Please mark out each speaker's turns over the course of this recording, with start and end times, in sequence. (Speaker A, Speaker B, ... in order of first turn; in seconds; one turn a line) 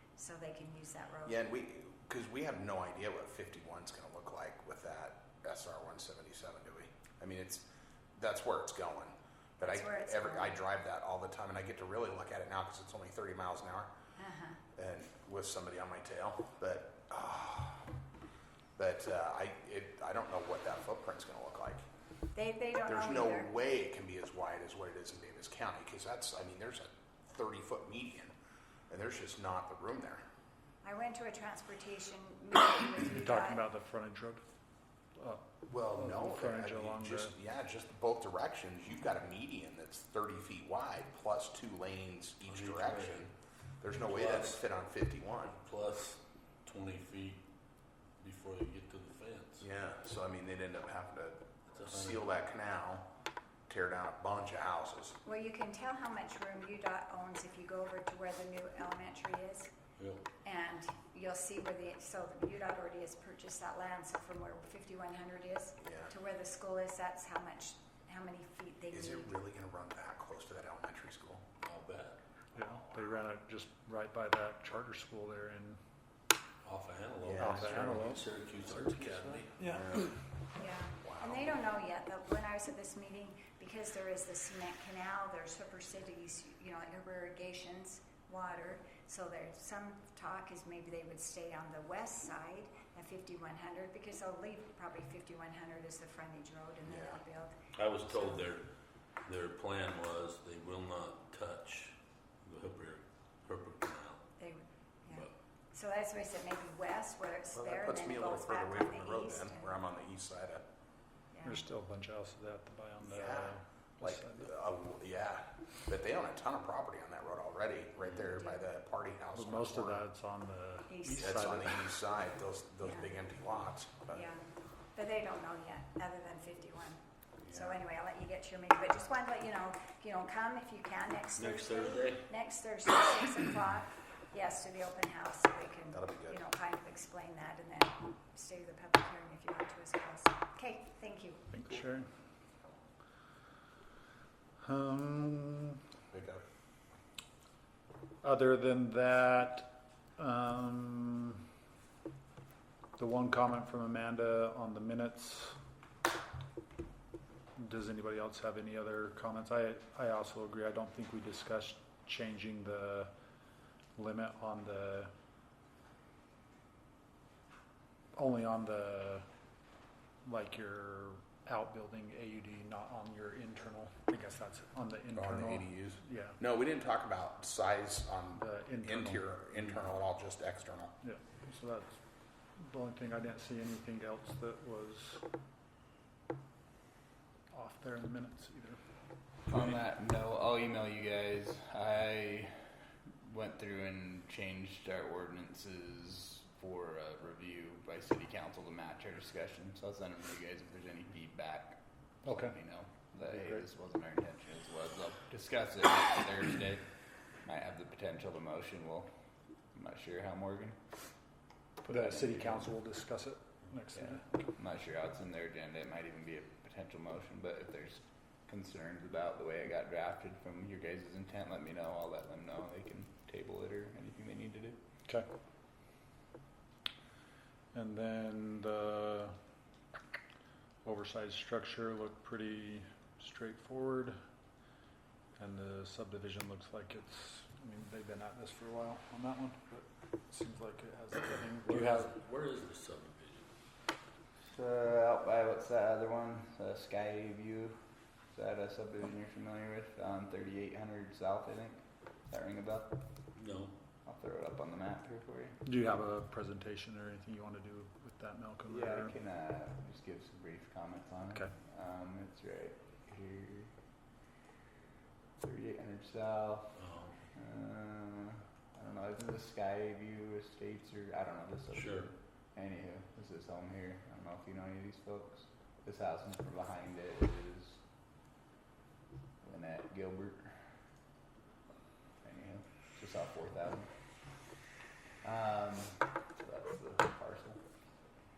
Speaker A: 0.1-1.4
Speaker B: 1.2-13.9
Speaker A: 9.6-10.6
Speaker A: 14.2-14.6
Speaker B: 14.7-17.9
Speaker B: 18.8-21.8
Speaker A: 22.3-23.5
Speaker B: 22.8-28.3
Speaker B: 28.9-30.2
Speaker A: 30.8-33.6
Speaker C: 33.0-34.4
Speaker C: 35.1-37.4
Speaker B: 35.6-45.6
Speaker D: 42.4-43.3
Speaker D: 43.9-44.6
Speaker D: 45.6-47.4
Speaker D: 48.2-49.6
Speaker B: 49.6-53.1
Speaker D: 51.7-52.3
Speaker B: 53.7-55.2
Speaker A: 55.2-59.7
Speaker D: 60.0-60.2
Speaker A: 60.4-69.4
Speaker B: 65.8-66.1
Speaker B: 68.9-71.5
Speaker D: 71.6-72.2
Speaker C: 72.5-75.8
Speaker D: 76.6-79.5
Speaker B: 77.2-78.2
Speaker C: 77.4-79.9
Speaker B: 79.7-80.1
Speaker A: 80.5-98.4
Speaker B: 81.0-81.5
Speaker B: 96.8-97.2
Speaker D: 97.7-98.7
Speaker D: 99.2-104.2
Speaker A: 104.4-109.8
Speaker B: 107.5-110.7
Speaker A: 111.3-111.6
Speaker C: 111.4-114.5
Speaker B: 113.0-120.0
Speaker A: 118.3-118.6
Speaker C: 119.3-121.9
Speaker A: 120.9-121.3
Speaker B: 121.2-124.2
Speaker A: 124.1-141.7
Speaker B: 127.4-127.8
Speaker D: 131.4-132.3
Speaker B: 135.9-136.4
Speaker C: 141.5-142.1
Speaker C: 144.6-145.8
Speaker B: 146.1-146.4
Speaker C: 148.2-151.4
Speaker C: 153.0-155.6
Speaker C: 157.6-163.1
Speaker C: 163.9-165.1
Speaker C: 168.1-169.2
Speaker C: 170.2-176.4
Speaker B: 175.1-181.0
Speaker C: 178.3-179.9
Speaker C: 181.0-182.0
Speaker C: 182.6-185.2
Speaker C: 187.5-188.8
Speaker E: 189.5-192.6
Speaker D: 189.5-189.8
Speaker E: 193.2-206.9
Speaker C: 202.3-202.5
Speaker C: 203.3-203.6
Speaker E: 207.4-209.1
Speaker E: 209.7-210.8
Speaker E: 211.9-212.7
Speaker C: 211.9-214.5
Speaker E: 213.9-224.8
Speaker C: 227.7-229.3
Speaker C: 230.8-234.2
Speaker C: 235.4-242.1
Speaker D: 241.7-243.5
Speaker E: 244.4-253.0
Speaker D: 253.3-253.7
Speaker E: 254.0-255.6
Speaker C: 255.6-259.1
Speaker E: 258.7-263.7
Speaker E: 265.4-266.8
Speaker D: 266.7-267.1
Speaker E: 267.3-277.8
Speaker D: 271.7-272.1
Speaker E: 279.4-280.6
Speaker E: 282.2-283.9
Speaker E: 285.2-287.6